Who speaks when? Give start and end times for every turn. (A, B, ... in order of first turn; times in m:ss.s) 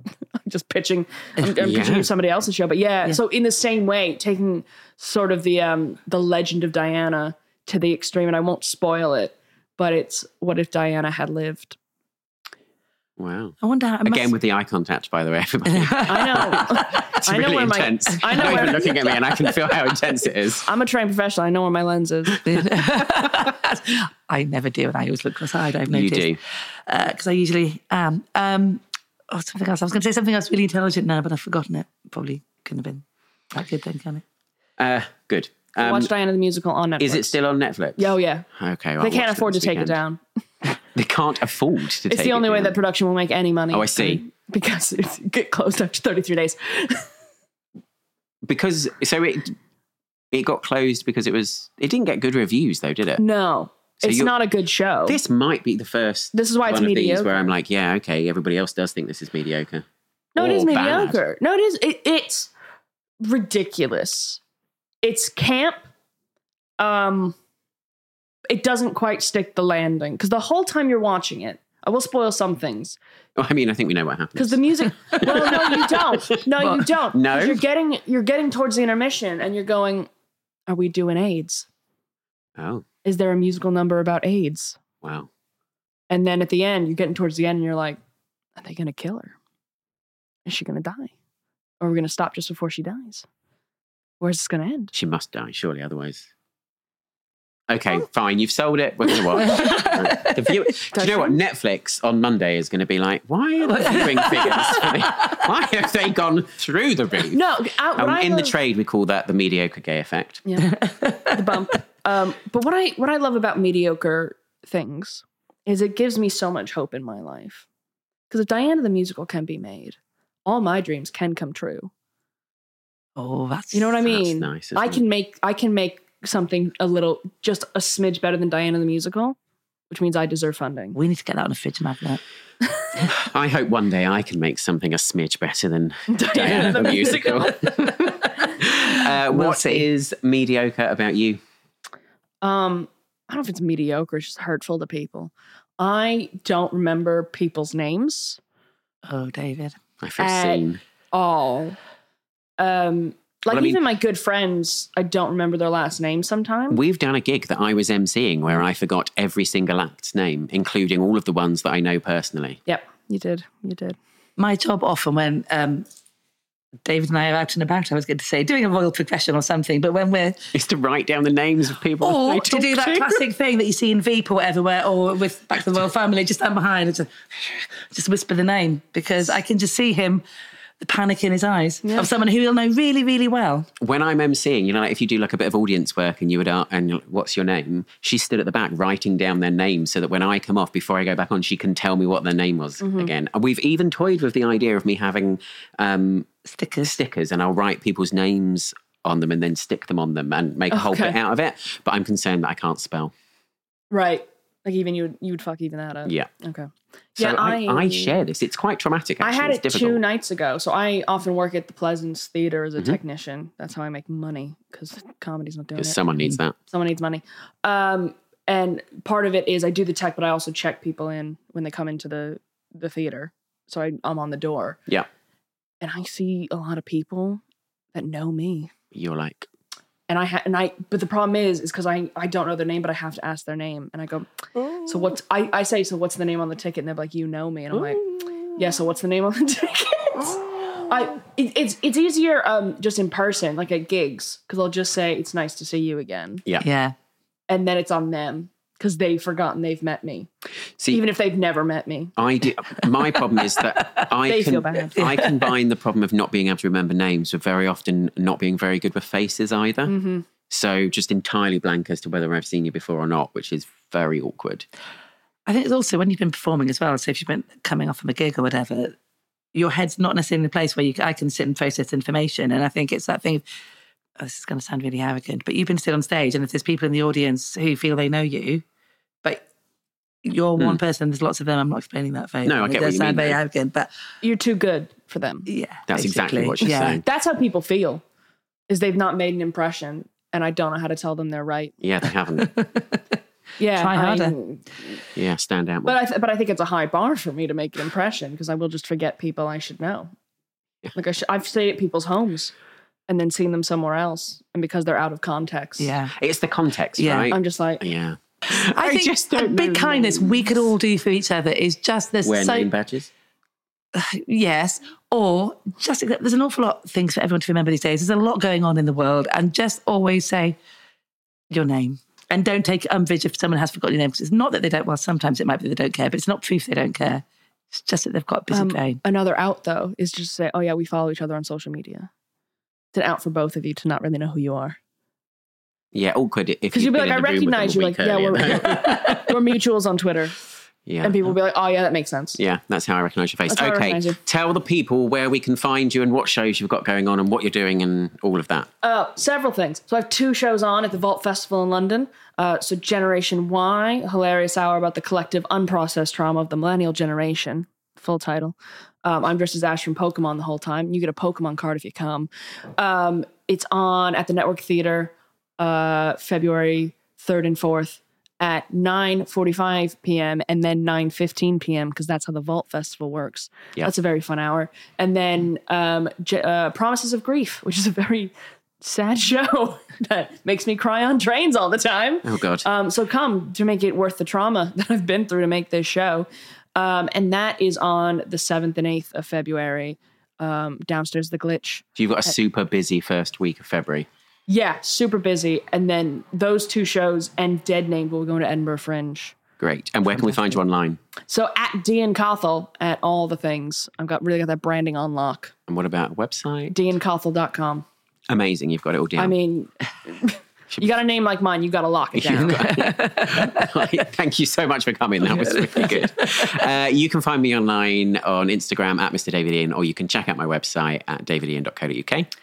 0:00.4-0:11.8 A
0:01.6-0:02.1 B
0:13.2-0:20.6 B
0:13.6-0:14.3 C
0:15.7-0:17.0 C
0:16.0-0:18.9 A
0:18.2-0:19.6 C
0:20.6-0:22.4 A
0:22.3-0:23.5 B
0:22.4-0:34.2 C
0:25.9-0:26.4 B
0:34.8-0:36.1 B
0:35.8-0:37.3 A
0:37.0-0:40.0 B
0:38.0-0:38.4 A
0:39.0-0:40.2 A
0:40.9-0:42.8 B
0:42.1-0:47.1 A
0:43.7-0:44.2 B
0:48.4-0:49.5 B
0:50.3-0:53.2 B
0:53.2-0:55.2 A
0:54.0-0:54.3 B
0:55.0-0:59.8 B
0:56.3-0:57.4 A
1:00.4-1:02.5 A
1:00.4-1:01.2 B
1:03.2-1:04.4 A
1:05.0-1:05.8 A
1:06.8-1:07.4 A
1:08.5-1:13.0 A
1:13.4-1:16.4 B
1:14.4-1:20.1 A
1:17.1-1:17.6 B
1:20.7-1:21.7 A
1:22.6-1:22.8 B
1:23.0-1:24.8 A
1:25.0-1:25.3 B
1:26.1-1:28.0 A
1:28.6-1:29.4 A
1:30.4-1:31.1 A
1:31.8-1:33.2 A
1:34.2-1:34.9 A
1:34.9-1:36.3 B
1:37.7-1:47.4 B
1:39.3-1:40.7 C
1:40.9-1:41.4 A
1:43.6-1:45.5 C
1:47.3-1:48.6 A
1:48.0-1:50.4 B
1:50.4-1:57.6 A
1:50.8-1:51.5 C
1:58.3-2:01.9 A
2:03.2-2:04.0 C
2:03.7-2:09.4 A
2:04.0-2:05.0 B
2:09.9-2:11.0 A
2:10.9-2:12.2 C
2:13.1-2:17.9 B
2:16.1-2:17.9 A
2:17.6-2:19.8 C
2:18.6-2:21.4 B
2:22.4-2:28.4 A
2:29.1-2:29.8 C
2:30.0-2:30.8 B
2:30.2-2:31.8 A
2:32.6-2:36.8 A
2:33.5-2:33.8 B
2:36.7-2:42.6 B
2:42.7-2:44.0 A
2:44.4-2:45.8 C
2:46.8-2:50.4 C
2:50.5-2:53.2 B
2:52.0-3:00.2 C
3:00.8-3:03.7 C
3:01.8-3:02.1 A
3:03.8-3:16.3 B
3:12.8-3:13.1 A
3:16.4-3:16.9 C
3:16.8-3:23.1 B
3:20.7-3:21.2 A
3:23.9-3:28.1 A
3:27.2-3:30.0 B
3:29.2-3:36.0 A
3:35.8-3:36.6 B
3:36.7-3:44.8 A
3:45.8-3:47.4 A
3:47.9-3:48.7 A
3:48.9-3:49.5 B
3:50.1-4:06.4 A
4:06.6-4:06.9 C
4:07.5-4:10.3 A
4:10.8-4:11.0 B
4:10.9-4:12.1 A
4:12.2-4:19.9 B
4:13.6-4:14.1 C
4:14.2-4:15.0 A
4:14.9-4:15.5 C
4:19.8-4:20.2 A
4:20.5-4:24.6 B
4:25.4-4:28.9 C
4:29.5-4:33.4 C
4:34.2-4:38.6 C
4:40.2-4:43.9 C
4:42.4-4:43.4 B
4:44.2-4:45.5 A
4:45.5-4:47.0 C
4:45.9-4:47.0 B
4:46.6-4:48.0 A
4:48.7-4:51.7 A
4:51.8-4:52.5 B
4:52.4-4:53.0 C
4:53.6-4:55.0 A
4:53.7-4:54.3 C
4:55.1-4:56.0 B
4:55.8-5:00.1 A
5:00.9-5:02.5 A
5:03.1-5:05.9 A
5:05.8-5:06.1 C
5:06.2-5:10.5 B
5:07.0-5:07.3 C
5:07.3-5:07.8 A
5:08.6-5:12.7 C
5:12.2-5:13.1 B
5:13.9-5:20.6 C
5:21.5-5:29.0 C
5:28.5-5:32.1 A
5:32.9-5:34.8 A
5:35.9-5:39.3 B
5:36.7-5:40.4 A
5:40.8-5:41.3 B
5:41.0-5:42.4 A
5:42.4-5:48.7 B
5:43.5-5:44.2 A
5:48.8-6:32.3 A
6:22.2-6:22.6 B
6:32.0-6:34.1 B
6:34.5-6:39.4 A
6:39.6-6:41.0 B
6:41.3-6:45.5 A
6:45.7-6:46.8 B
6:46.7-6:47.8 A
6:48.3-6:49.3 B
6:49.2-6:52.6 A
6:52.1-7:02.3 B
6:52.3-6:54.0 C
6:55.3-6:56.6 C